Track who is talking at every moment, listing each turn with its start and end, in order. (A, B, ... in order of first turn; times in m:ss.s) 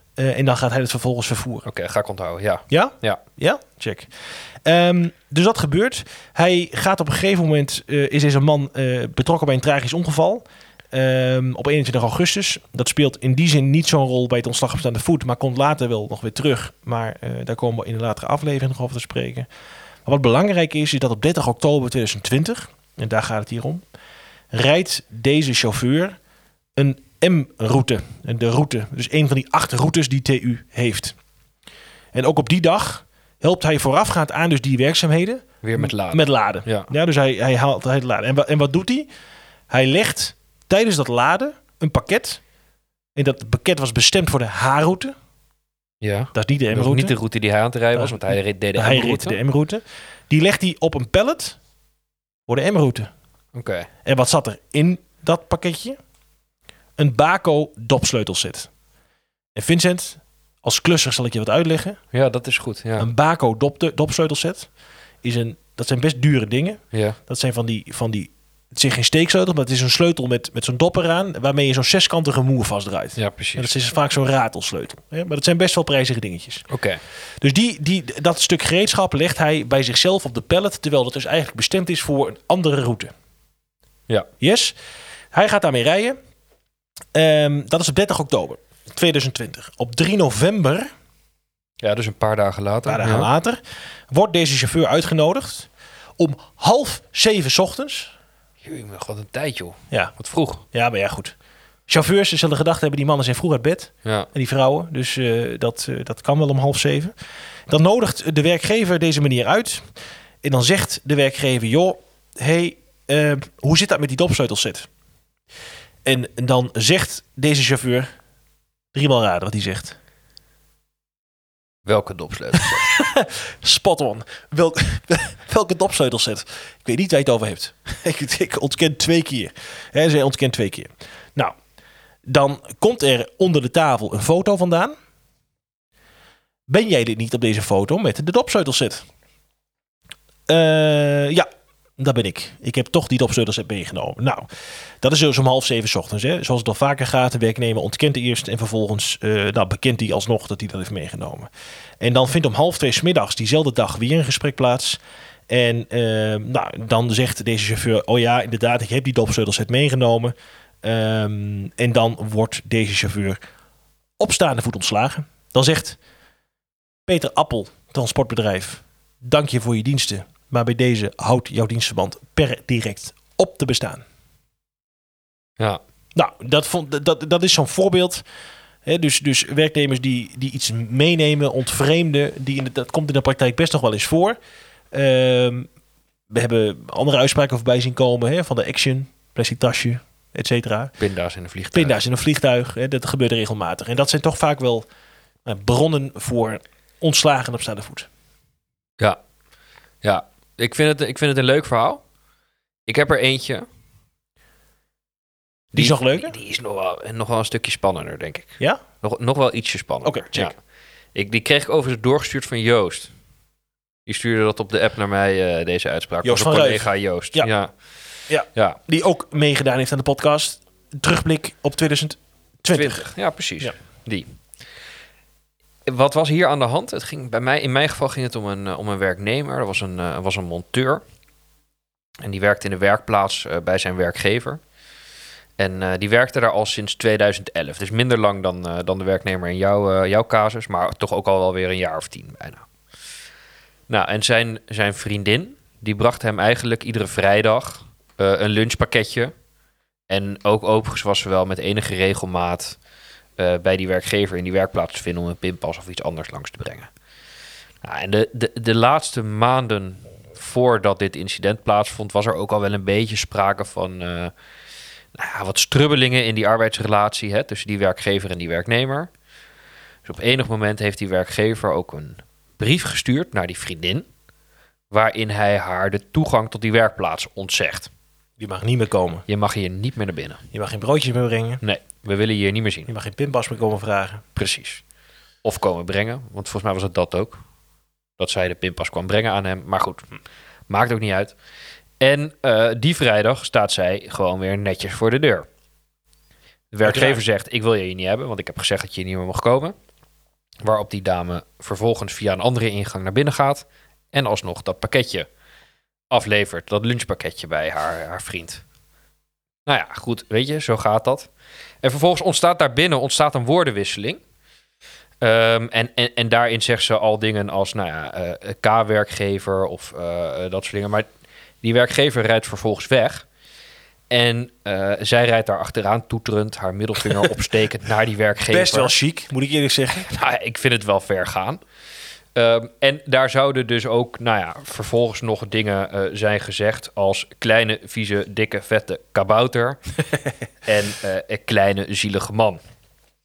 0:00.2-0:01.7 A
0:01.6-0:03.2 B
0:02.7-0:19.5 A
0:20.0-0:23.8 A
0:24.5-0:26.2 A
0:26.8-0:31.2 A
0:32.1-0:39.1 A
0:35.6-0:36.9 B
0:39.7-0:42.4 A
0:43.1-0:45.1 A
0:46.0-0:49.4 B
0:46.3-0:47.2 A
0:47.9-0:51.6 A
0:52.5-0:53.1 A
0:53.5-0:53.9 B
0:54.0-0:56.0 A
0:57.0-0:58.7 A
0:59.5-1:02.0 A
1:02.1-1:03.1 B
1:03.0-1:04.7 A
1:05.2-1:16.6 A
1:06.9-1:07.2 B
1:13.2-1:13.7 B
1:16.7-1:17.0 B
1:17.4-1:23.1 A
1:24.4-1:24.8 A
1:25.3-1:26.2 A
1:27.1-1:30.9 A
1:31.8-1:33.3 B
1:32.8-1:38.1 A
1:38.6-1:40.6 B
1:39.9-1:40.2 A
1:40.7-1:41.3 A
1:41.9-1:47.2 A
1:47.7-1:49.9 A
1:50.4-1:54.9 A
1:56.0-1:58.1 A
1:58.9-2:00.0 A
2:01.8-2:02.9 B
2:02.5-2:11.6 A
2:12.2-2:14.9 A
2:16.7-2:19.0 A
2:20.5-2:21.5 A
2:22.0-2:24.5 A
2:25.0-2:31.5 A
2:32.0-2:43.4 A
2:44.2-2:46.0 A
2:47.1-2:54.0 A
2:56.1-2:58.2 A
2:58.8-3:04.4 A
3:04.9-3:05.7 A
3:06.3-3:11.0 A
3:11.0-3:12.0 B
3:11.7-3:14.8 A
3:15.4-3:18.1 A
3:20.0-3:22.0 B
3:22.8-3:23.7 B
3:25.7-3:30.5 B
3:25.7-3:26.4 A
3:30.0-3:30.5 A
3:31.1-3:33.1 B
3:34.0-3:37.7 B
3:36.2-3:37.5 A
3:38.3-3:43.7 A
3:42.7-3:44.3 B
3:45.8-3:51.0 B
3:52.2-3:54.6 B
3:55.6-4:02.6 B
4:03.9-4:09.3 B
4:10.1-4:12.8 B
4:13.4-4:16.9 B
4:17.8-4:24.3 B
4:25.1-4:29.1 B
4:30.0-4:34.1 B
4:34.9-4:37.9 B
4:38.4-4:39.2 A
4:39.3-4:40.4 B
4:40.5-4:41.6 A
4:41.6-4:42.9 B
4:42.9-4:44.2 A
4:44.4-4:44.8 B
4:45.4-4:47.4 B
4:48.2-4:50.1 B
4:50.7-4:51.3 B
4:52.0-4:55.5 B
4:56.7-4:59.8 B
4:56.8-4:57.2 A
5:00.6-5:05.3 B
5:06.1-5:08.6 B
5:09.6-5:11.3 B
5:11.8-5:14.2 B
5:15.2-5:21.1 B
5:21.6-5:23.2 B
5:24.1-5:28.9 B
5:28.5-5:30.1 A
5:30.0-5:31.6 B
5:32.3-5:39.9 B
5:40.6-5:42.6 B